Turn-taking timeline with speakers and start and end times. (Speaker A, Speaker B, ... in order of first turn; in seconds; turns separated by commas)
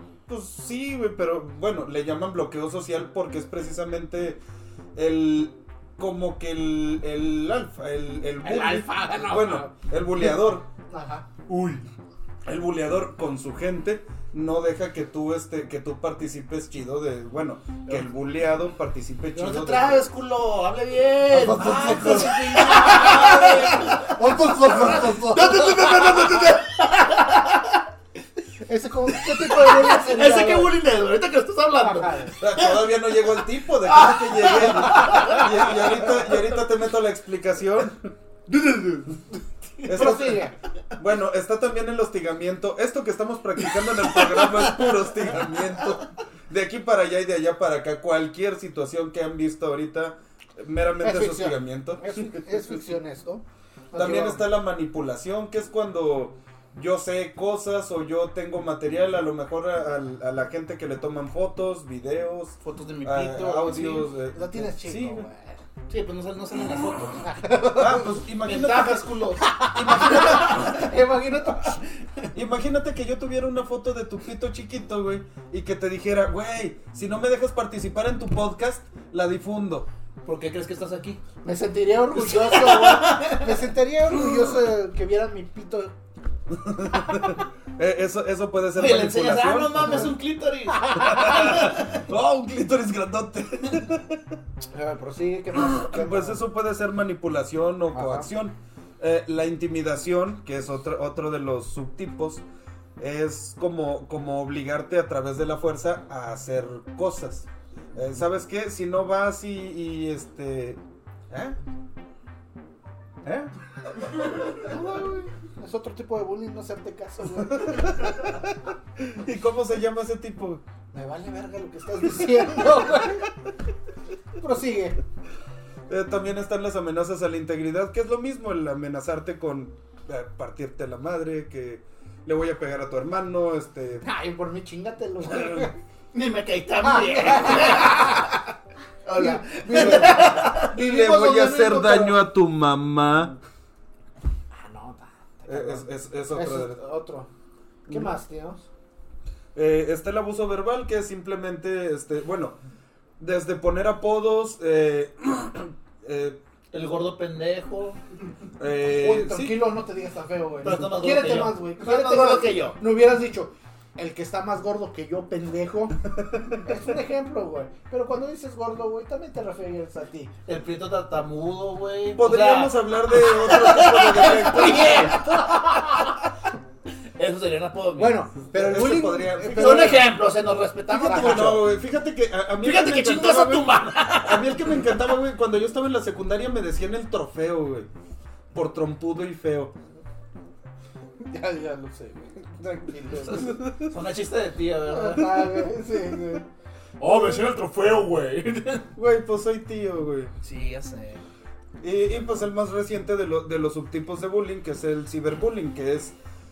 Speaker A: 0.3-4.4, Speaker A: 4.9-10.7, Speaker B: 8.4-9.7, Speaker B: 10.9-11.3, Speaker C: 11.5-11.8, Speaker A: 11.5-11.8, Speaker A: 12.4-20.0, Speaker C: 19.3-27.8, Speaker B: 21.3-26.2, Speaker A: 21.6-23.9, Speaker B: 28.6-30.8, Speaker C: 29.1-36.2, Speaker B: 31.8-32.4, Speaker A: 32.4-38.1, Speaker C: 38.5-39.2, Speaker C: 39.8-40.2, Speaker A: 39.8-52.6, Speaker B: 39.9-40.5, Speaker C: 43.8-45.8, Speaker B: 51.0-54.5, Speaker A: 53.9-65.3, Speaker C: 62.6-64.1, Speaker B: 64.1-65.6, Speaker C: 65.9-67.2, Speaker B: 67.2-68.2, Speaker A: 67.7-69.2, Speaker C: 68.4-70.8, Speaker B: 69.4-71.8, Speaker A: 69.7-70.3, Speaker A: 72.3-79.9, Speaker C: 80.2-81.2, Speaker B: 81.4-85.9, Speaker C: 82.1-83.7, Speaker A: 86.6-90.1, Speaker C: 88.7-92.0, Speaker B: 90.9-91.4, Speaker A: 91.0-94.3, Speaker B: 94.7-96.4, Speaker A: 95.6-102.4, Speaker B: 97.9-98.3, Speaker A: 103.0-111.6, Speaker A: 113.2-113.5, Speaker B: 114.6-118.3, Speaker A: 117.6-118.4, Speaker A: 119.0-120.6, Speaker B: 120.9-123.3, Speaker B: 124.4-125.0, Speaker A: 125.9-134.0, Speaker B: 134.0-135.8, Speaker C: 136.1-138.4, Speaker B: 136.8-138.3, Speaker C: 139.1-140.8, Speaker B: 139.1-142.2, Speaker A: 139.7-143.3, Speaker B: 144.5-147.3, Speaker A: 145.5-146.8, Speaker A: 147.9-148.2, Speaker B: 147.9-148.7, Speaker A: 149.5-152.6, Speaker A: 153.2-156.4, Speaker C: 156.7-158.0, Speaker A: 158.6-159.7, Speaker B: 158.8-166.0, Speaker C: 160.6-162.8, Speaker B: 166.5-170.3, Speaker C: 170.4-176.2, Speaker A: 172.2-175.1, Speaker B: 174.4-176.1, Speaker C: 177.1-178.2, Speaker B: 178.0-180.2, Speaker A: 178.5-180.1, Speaker C: 179.4-181.7, Speaker A: 180.9-187.9, Speaker B: 180.9-181.6, Speaker C: 182.6-185.0, Speaker A: 188.5-189.7, Speaker B: 191.2-193.6, Speaker C: 193.0-195.7, Speaker B: 194.8-196.4, Speaker C: 197.0-198.9, Speaker A: 198.9-200.3, Speaker C: 200.4-201.2, Speaker A: 201.8-206.2